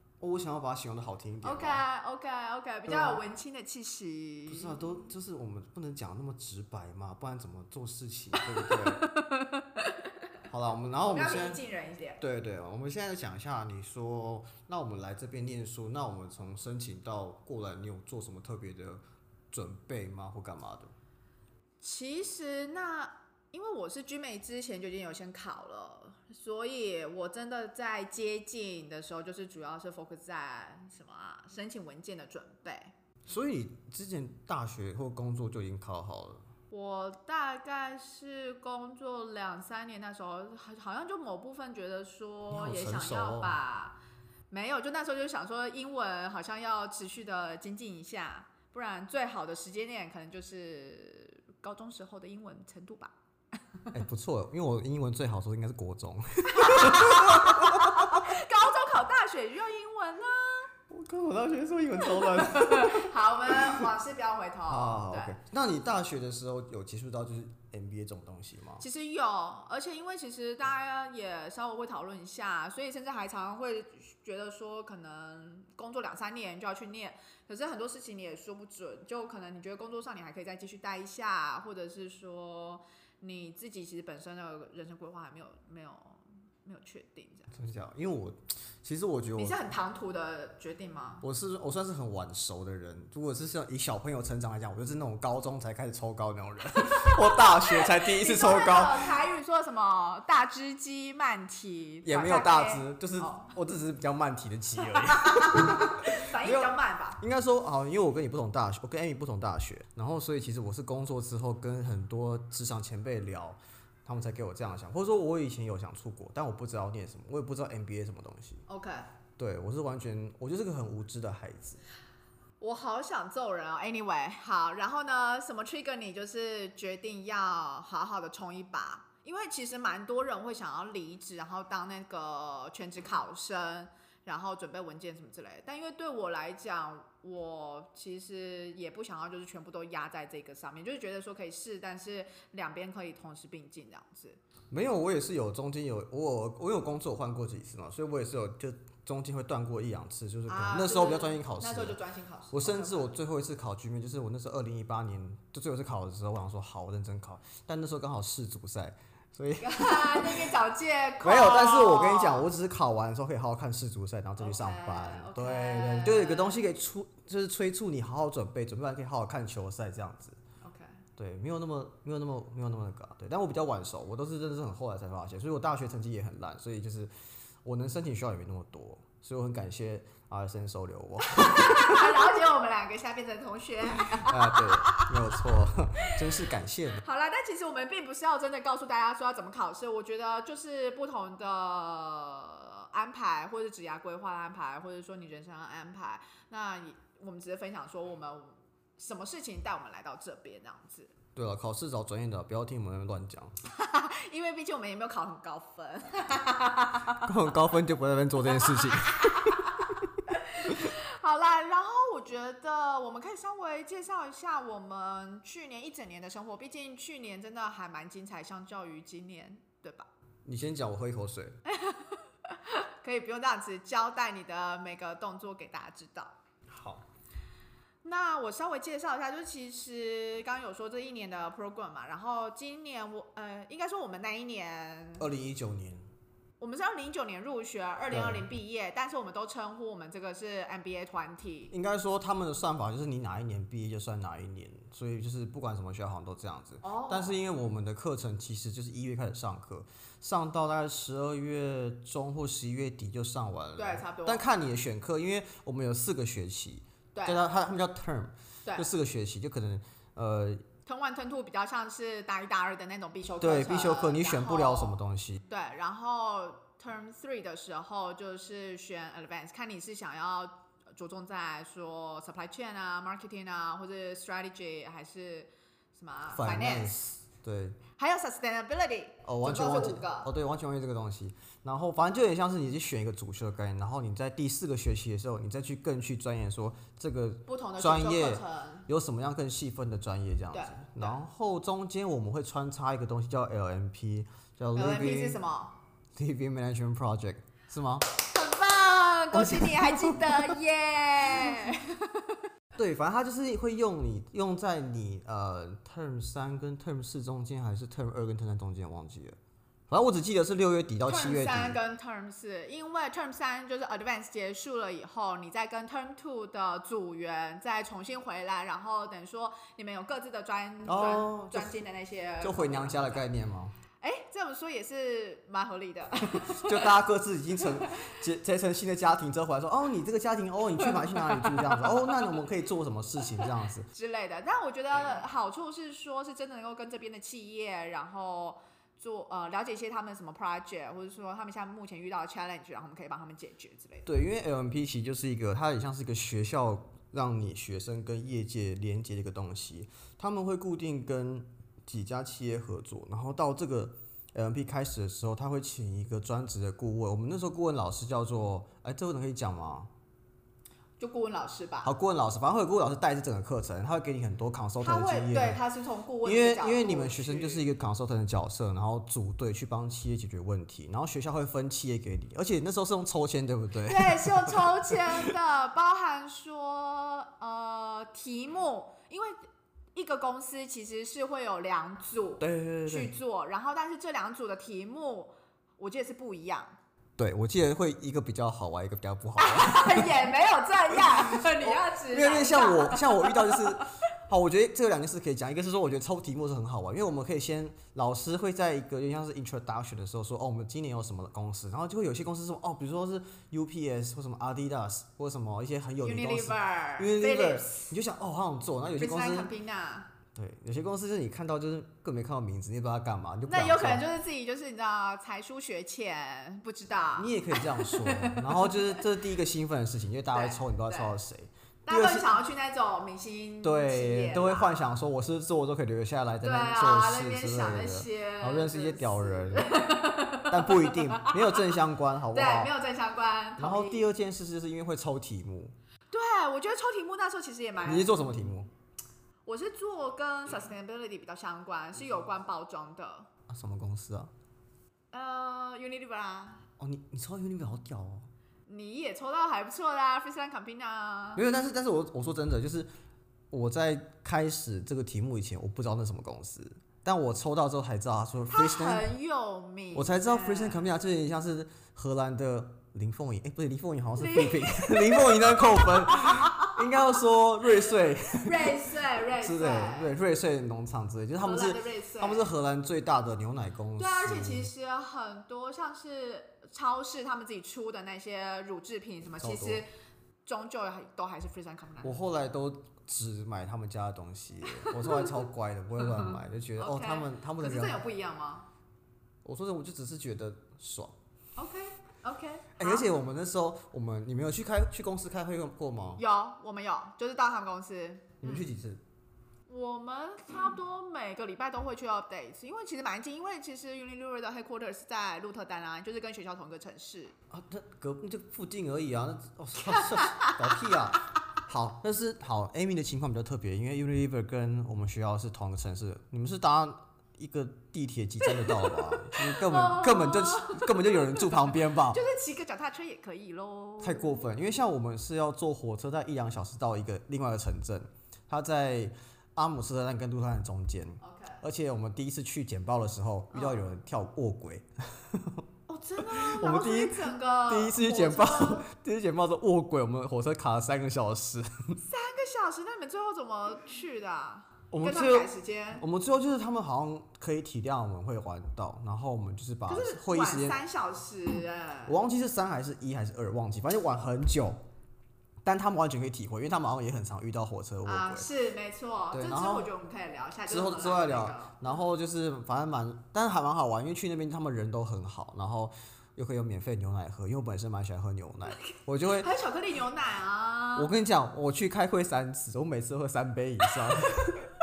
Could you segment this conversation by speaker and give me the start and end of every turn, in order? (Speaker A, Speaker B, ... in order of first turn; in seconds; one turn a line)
Speaker A: 0.2-1.8
Speaker B: 1.4-5.1
Speaker A: 2.9-3.2
Speaker A: 4.5-9.0
Speaker B: 8.4-10.1
Speaker A: 10.5-11.6
Speaker B: 11.0-12.2
Speaker A: 12.2-19.0
Speaker A: 19.5-20.9
Speaker B: 21.8-32.9
Speaker A: 33.3-36.5
Speaker B: 36.7-44.0
Speaker A: 42.5-43.6
Speaker B: 44.5-53.1
Speaker A: 53.9-58.2
Speaker B: 56.5-60.7
Speaker A: 60.9-63.9
Speaker B: 62.0-65.4
Speaker A: 64.7-68.8
Speaker B: 68.8-87.5
Speaker A: 87.5-89.6
Speaker B: 89.4-91.2
Speaker A: 91.2-99.1
Speaker B: 96.8-103.5
Speaker A: 102.0-118.6
Speaker B: 104.9-107.2
Speaker B: 118.7-119.1
Speaker A: 119.4-121.8
Speaker B: 122.6-144.4
Speaker A: 144.7-152.0
Speaker B: 150.5-153.1
Speaker A: 152.5-160.5
Speaker B: 159.6-162.5
Speaker A: 161.2-170.4
Speaker B: 164.4-166.6
Speaker B: 170.6-171.0
Speaker A: 171.2-177.1
Speaker A: 177.6-182.4
Speaker B: 181.3-185.4
Speaker A: 184.1-187.0
Speaker B: 187.0-201.1
Speaker A: 201.3-203.5
Speaker B: 203.7-207.3
Speaker A: 207.2-210.1
Speaker B: 208.5-220.1
Speaker A: 210.7-210.9
Speaker A: 220.4-221.6
Speaker B: 221.7-226.3
Speaker A: 226.7-227.0
Speaker B: 228.0-235.3
Speaker A: 235.2-236.0
Speaker B: 236.6-241.7
Speaker A: 238.1-238.4
Speaker A: 241.7-260.7
Speaker B: 246.8-247.4
Speaker B: 253.8-254.4
Speaker B: 257.1-257.4
Speaker B: 260.9-265.0
Speaker A: 263.4-265.4
Speaker B: 265.5-277.0
Speaker A: 276.3-277.8
Speaker B: 278.0-280.3
Speaker A: 279.2-295.4
Speaker B: 287.5-288.9
Speaker B: 290.5-291.2
Speaker B: 294.8-295.8
Speaker A: 296.2-298.1
Speaker B: 298.2-302.4
Speaker A: 299.3-300.6
Speaker A: 302.8-309.4
Speaker A: 309.9-311.8
Speaker B: 311.1-323.2
Speaker A: 320.9-321.8
Speaker A: 322.4-323.7
Speaker B: 324.0-326.9
Speaker A: 326.3-333.9
Speaker B: 330.9-331.9
Speaker B: 333.9-344.1
Speaker A: 344.1-359.9
Speaker B: 361.0-361.9
Speaker A: 361.8-365.6
Speaker B: 364.8-367.6
Speaker A: 366.2-375.1
Speaker B: 373.9-379.4
Speaker B: 379.9-386.8
Speaker A: 382.4-383.1
Speaker A: 387.2-390.2
Speaker B: 389.4-393.9
Speaker A: 390.9-409.5
Speaker B: 406.0-407.9
Speaker B: 409.0-410.1
Speaker A: 410.4-414.1
Speaker B: 413.5-419.0
Speaker A: 417.2-422.3
Speaker B: 420.3-421.2
Speaker B: 421.9-424.9
Speaker A: 423.6-429.8
Speaker B: 426.4-431.7
Speaker A: 430.5-432.7
Speaker B: 432.3-434.1
Speaker A: 433.6-435.8
Speaker B: 436.1-438.4
Speaker A: 437.8-438.7
Speaker B: 439.5-443.3
Speaker A: 443.5-444.3
Speaker B: 445.1-446.6
Speaker A: 446.8-448.3
Speaker B: 448.7-451.4
Speaker A: 451.4-452.9
Speaker A: 453.5-459.1
Speaker B: 458.5-460.9
Speaker A: 459.9-468.8
Speaker B: 464.2-467.2
Speaker B: 468.4-470.2
Speaker A: 469.4-474.7
Speaker B: 471.4-472.5
Speaker B: 474.0-479.9
Speaker A: 479.4-479.8
Speaker B: 480.4-482.1
Speaker A: 482.0-488.0
Speaker B: 484.7-485.4
Speaker B: 486.0-488.7
Speaker A: 489.4-491.2
Speaker B: 491.6-493.1
Speaker A: 492.8-496.2
Speaker B: 496.2-498.7
Speaker A: 498.4-499.0
Speaker B: 499.7-507.4
Speaker A: 507.5-522.2
Speaker B: 509.9-510.6
Speaker B: 518.5-524.5
Speaker A: 524.0-535.6
Speaker B: 531.2-531.6
Speaker B: 533.5-533.8
Speaker B: 535.9-538.9
Speaker A: 536.2-542.0
Speaker B: 542.0-546.0
Speaker A: 544.9-550.8
Speaker B: 549.9-552.2
Speaker A: 552.1-554.8
Speaker A: 555.6-558.5
Speaker B: 558.0-562.0
Speaker A: 559.3-559.9
Speaker A: 560.7-569.5
Speaker B: 569.4-571.1
Speaker A: 571.0-574.7